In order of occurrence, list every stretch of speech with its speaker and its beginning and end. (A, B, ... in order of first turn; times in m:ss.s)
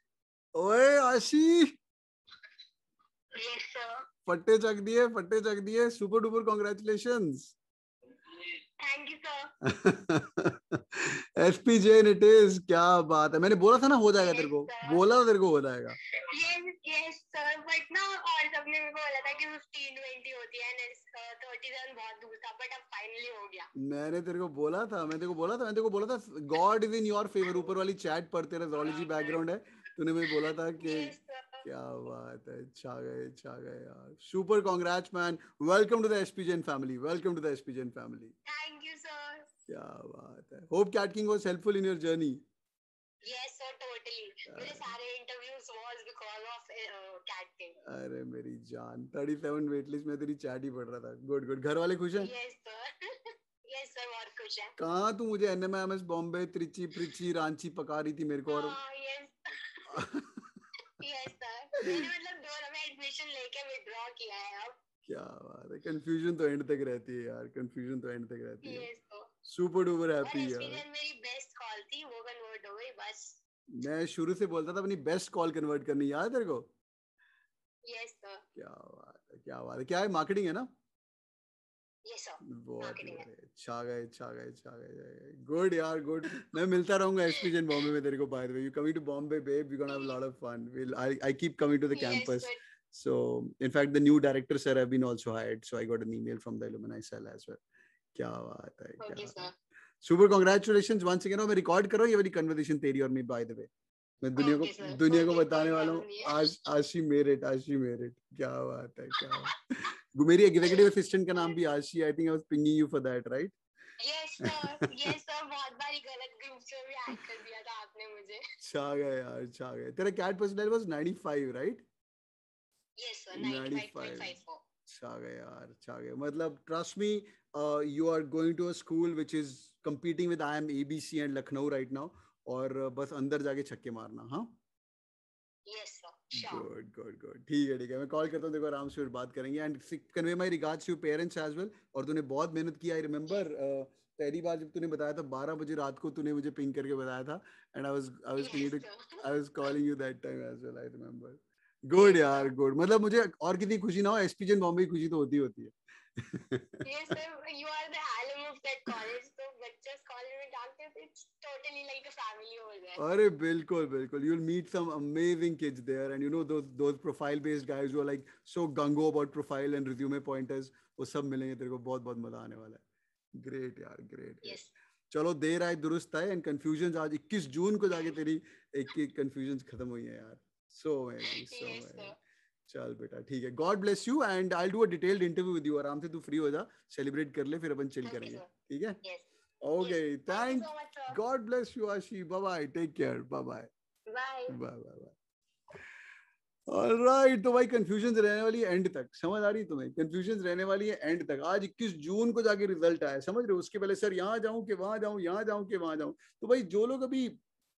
0:00.6-0:01.7 A
0:03.4-0:03.9 B
0:04.2-0:07.5 A
0:08.3-0:09.5 B
0:09.6-0:16.0 A
0:14.2-0:15.0 B
0:16.3-0:23.7 B
0:23.8-0:38.3 A
0:28.8-0:29.4 B
0:30.4-0:31.6 B
0:38.4-0:39.4 B
0:39.7-0:42.4 A
0:43.2-0:47.8 B
0:44.5-0:44.9 A
0:47.8-0:52.3 A
0:52.2-0:52.9 B
0:53.7-0:54.7 B
0:54.8-0:58.7 A
0:58.5-1:00.0 B
0:59.9-1:00.4 A
1:01.0-1:04.7 B
1:05.1-1:08.9 A
1:08.6-1:09.3 B
1:09.4-1:10.8 A
1:10.2-1:13.4 B
1:13.7-1:16.6 A
1:17.9-1:18.4 B
1:18.6-1:20.7 A
1:22.1-1:23.2 B
1:22.4-1:37.6 A
1:31.9-1:32.6 B
1:38.1-1:39.5 A
1:39.0-1:39.5 B
1:40.0-1:43.7 A
1:44.2-1:53.5 A
1:44.4-1:46.5 B
1:54.0-1:58.4 B
1:58.6-2:01.8 A
2:03.0-2:04.6 B
2:03.3-2:14.5 A
2:15.7-2:16.6 B
2:16.3-2:36.8 A
2:28.4-2:29.2 B
2:32.0-2:32.5 B
2:36.8-2:43.0 B
2:43.0-2:52.8 A
2:53.4-3:02.1 A
2:54.4-2:54.7 B
3:01.3-3:02.1 B
3:02.7-3:09.0 A
3:08.0-3:08.5 B
3:09.6-3:13.7 A
3:09.8-3:11.2 B
3:14.1-3:14.5 B
3:14.5-3:15.1 A
3:16.7-3:27.4 A